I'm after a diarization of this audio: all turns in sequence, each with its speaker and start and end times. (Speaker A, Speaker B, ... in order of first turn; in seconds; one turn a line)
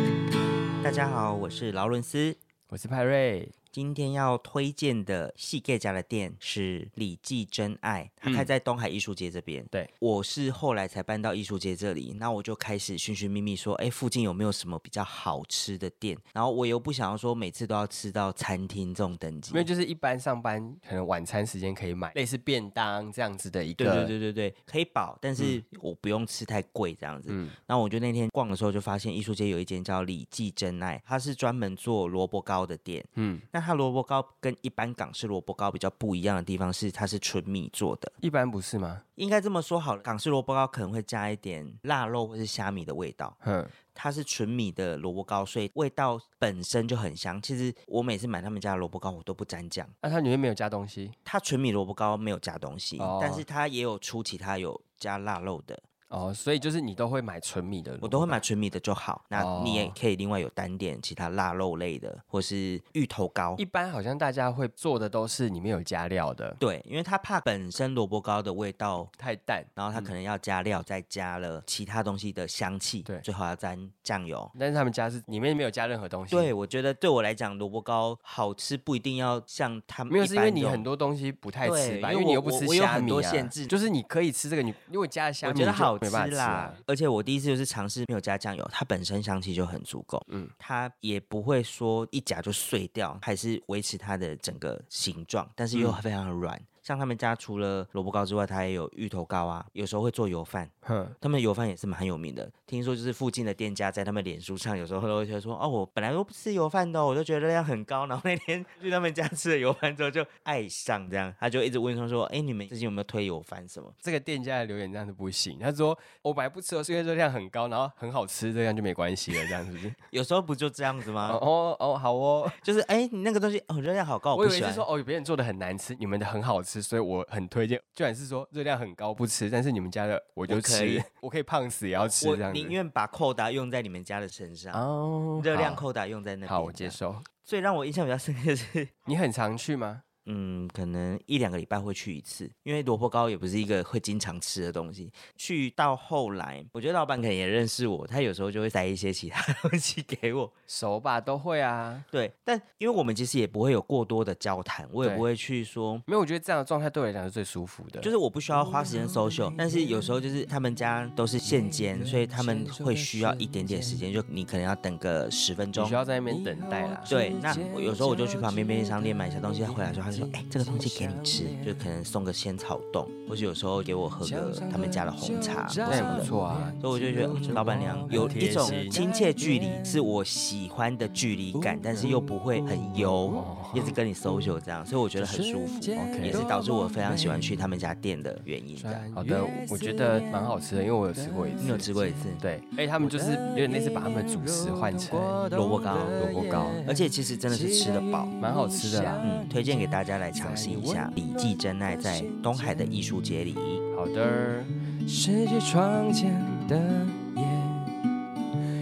Speaker A: 0.8-2.4
Speaker B: 2.7-3.5
Speaker A: 3.7-19.7
Speaker B: 8.2-8.5
Speaker B: 19.5-24.1
Speaker A: 23.8-38.1
Speaker B: 27.3-27.6
Speaker B: 33.2-33.5
Speaker B: 38.2-39.0
Speaker A: 39.2-43.4
Speaker B: 43.4-43.7
Speaker A: 43.9-49.9
Speaker B: 50.0-51.1
Speaker A: 51.3-55.8
Speaker B: 53.0-53.5
Speaker B: 56.1-58.4
Speaker A: 58.0-63.6
Speaker B: 59.3-60.0
Speaker B: 63.6-66.6
Speaker A: 66.6-69.1
Speaker B: 69.2-70.1
Speaker A: 69.8-74.5
Speaker B: 74.5-76.5
Speaker A: 76.3-80.9
Speaker B: 80.1-86.8
Speaker A: 81.6-83.7
Speaker A: 85.4-114.0
Speaker B: 95.7-96.0
Speaker B: 100.8-101.2
Speaker B: 114.0-120.0
Speaker A: 120.1-121.4
Speaker B: 121.2-122.6
Speaker A: 122.5-124.9
Speaker B: 124.3-132.8
Speaker A: 130.5-131.1
Speaker A: 132.2-134.8
Speaker B: 134.7-135.8
Speaker A: 135.4-138.9
Speaker B: 136.5-137.3
Speaker B: 139.1-140.0
Speaker A: 140.3-150.5
Speaker B: 150.7-152.1
Speaker A: 152.1-156.0
Speaker B: 156.1-158.1
Speaker A: 158.0-166.0
Speaker C: 158.5-160.0
Speaker C: 161.5-164.1
Speaker B: 165.8-167.2
Speaker C: 166.2-171.9
Speaker A: 167.1-189.1
Speaker C: 174.2-180.2
Speaker B: 175.8-176.8
Speaker B: 177.4-179.0
Speaker C: 181.5-184.6
Speaker B: 183.0-184.0
Speaker C: 185.2-187.6
Speaker B: 186.0-186.5
Speaker C: 188.8-192.3
Speaker B: 189.1-191.9
Speaker A: 191.6-192.4
Speaker B: 192.4-195.5
Speaker C: 192.9-203.0
Speaker A: 195.5-196.3
Speaker B: 196.2-196.8
Speaker A: 196.8-198.3
Speaker B: 198.4-199.2
Speaker A: 199.2-203.8
Speaker B: 203.9-204.7
Speaker C: 205.0-207.9